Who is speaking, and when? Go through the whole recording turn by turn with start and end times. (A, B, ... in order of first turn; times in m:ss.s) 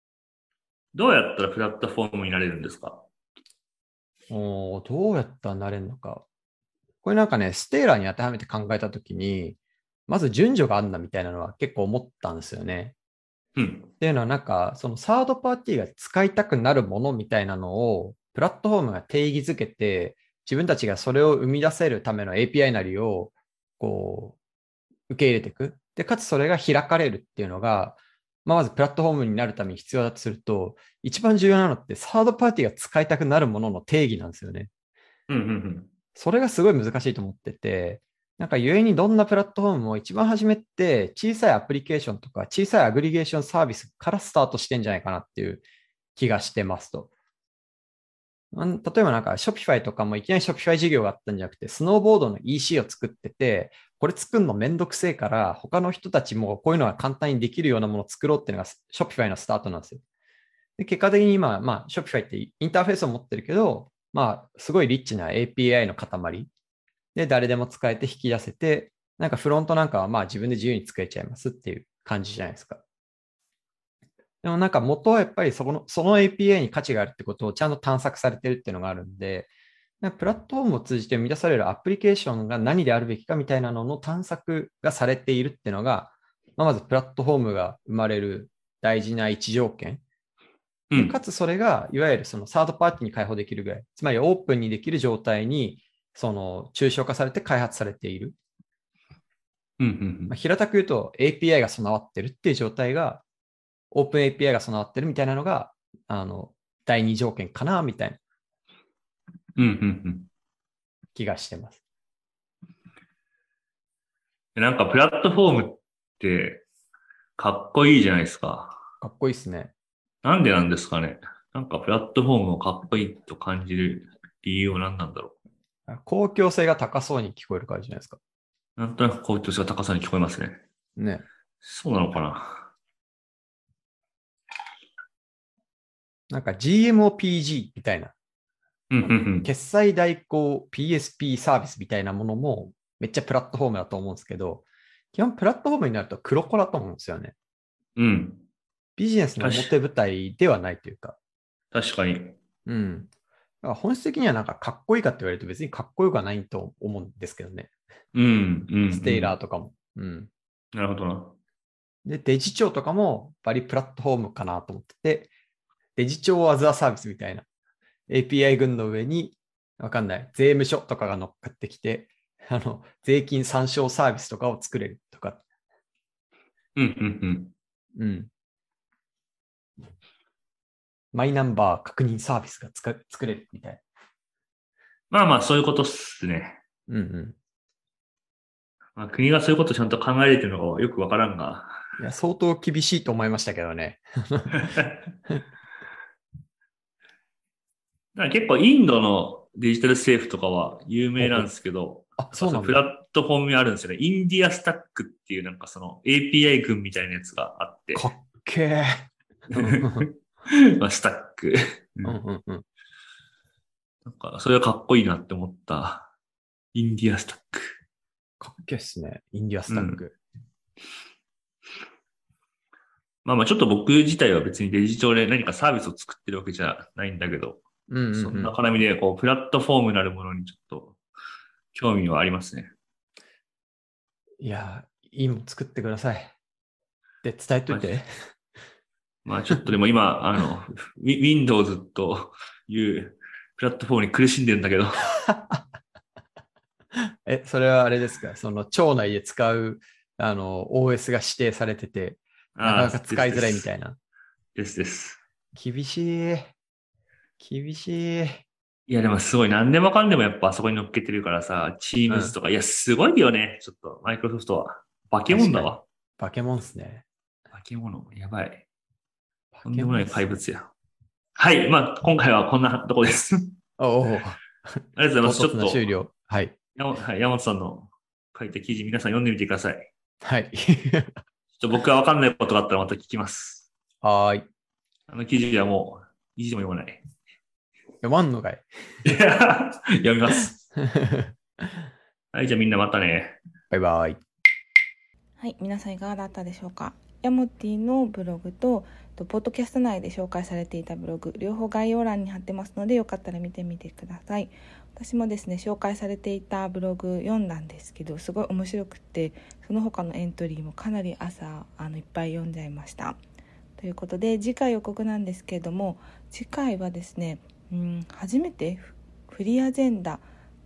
0:00.9-0:03.0 A
0:04.3-0:06.2 B
0:07.0-0:12.9 B
0:13.6-0:13.9 A
0:14.0-0:24.4 B
0:25.1-0:34.7 B
0:35.3-0:35.9 A
0:36.2-0:45.6 B
0:46.2-0:47.1 B
0:48.5-1:00.0 B
1:00.8-1:06.5 B
1:07.1-1:12.8 B
1:14.4-1:19.5 B
1:20.0-1:30.0 B
1:30.9-1:31.2 A
1:31.0-1:38.4 B
1:39.8-1:40.3 A
1:40.3-1:43.2 B
1:43.9-1:48.2 B
1:49.6-1:50.3 A
1:51.1-1:51.8 B
1:54.6-1:56.6 A
1:57.4-1:58.7 A
1:59.0-1:59.7 B
2:00.2-2:05.3 A
2:05.9-2:08.2 B
2:08.8-2:10.6 A
2:11.0-2:11.2 B
2:11.6-2:12.7 A
2:16.3-2:18.1 B
2:18.9-2:19.5 A
2:19.0-2:27.3 B
2:28.0-2:28.4 A
2:29.0-2:31.2 B
2:29.4-2:29.7 A
2:31.7-2:32.4 A
2:32.6-2:33.1 B
2:33.6-2:37.7 B
2:38.1-2:39.3 A
2:38.9-2:40.3 B
2:40.7-2:41.4 A
2:42.0-2:45.3 B
2:46.0-2:47.4 B
2:48.1-2:55.4 B
2:56.8-2:57.5 A
2:58.0-2:58.3 B
3:01.1-3:03.8 B
3:05.1-3:06.6 A
3:06.9-3:07.4 B
3:09.0-3:11.7 A
3:12.0-3:15.4 B
3:18.1-3:28.0 A
3:21.2-3:21.5 B
3:22.2-3:22.8 B
3:27.9-3:30.1 B
3:29.5-3:32.2 A
3:32.0-3:32.6 B
3:34.0-3:36.1 A
3:36.7-3:37.8 A
3:38.4-3:40.2 B
3:39.7-3:40.0 A
3:43.2-3:47.6 A
3:47.9-3:48.5 B
3:48.1-3:51.0 A
3:51.7-3:52.7 A
3:54.4-3:56.3 B
3:57.2-3:58.0 B
3:57.7-3:57.9 A
3:59.2-4:05.1 A
4:05.3-4:05.6 B
4:07.2-4:14.0 B
4:12.6-4:13.7 A
4:14.6-4:15.2 A
4:15.5-4:16.5 B
4:17.4-4:18.4 B
4:18.9-4:25.8 A
4:22.1-4:22.3 B
4:25.3-4:27.0 B
4:27.5-4:28.6 A
4:29.5-4:30.2 B
4:29.6-4:30.7 A
4:31.4-4:33.6 A
4:33.8-4:36.5 B
4:35.0-4:35.9 A
4:36.8-4:39.9 A
4:40.2-4:41.2 B
4:41.6-4:43.7 A
4:44.0-4:44.4 B
4:45.1-4:47.0 A
4:48.0-4:48.6 B
4:49.0-4:50.5 A
4:50.8-4:51.3 B
4:52.3-4:53.4 A
4:53.7-4:54.2 B
4:55.4-5:13.2 C
5:13.8-5:20.2 C